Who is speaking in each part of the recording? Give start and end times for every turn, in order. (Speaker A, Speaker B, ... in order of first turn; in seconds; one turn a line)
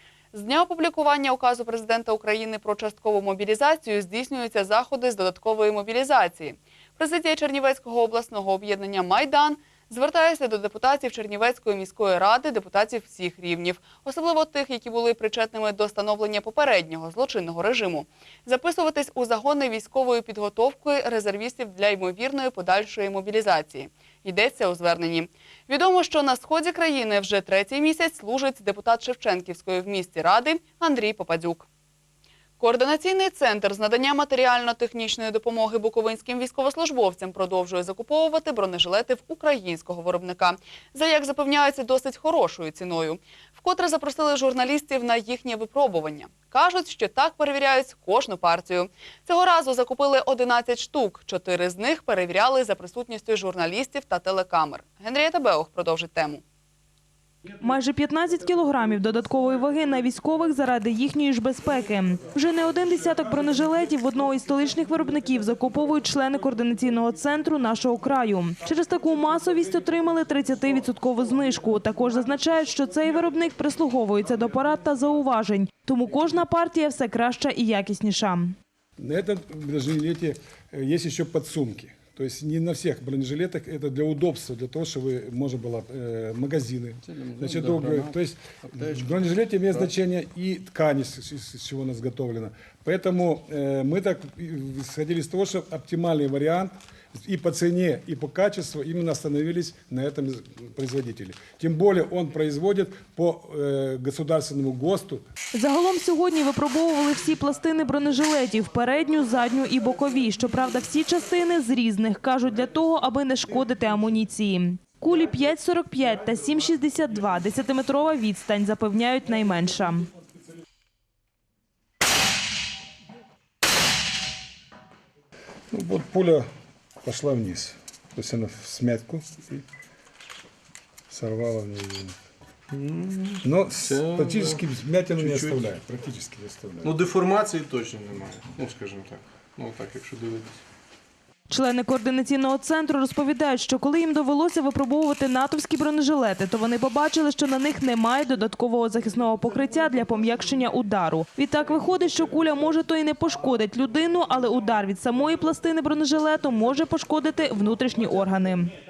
Speaker A: 0.3-31.7
Speaker A: 32.6-56.4
Speaker B: 57.6-78.6
Speaker C: 79.0-105.2
Speaker D: 87.0-89.9
Speaker B: 105.5-120.1
Speaker C: 125.7-126.5
Speaker C: 127.0-129.6
Speaker C: 131.1-132.1
Speaker D: 132.7-135.7
Speaker C: 133.4-137.0
Speaker D: 136.8-140.6
Speaker B: 141.5-158.7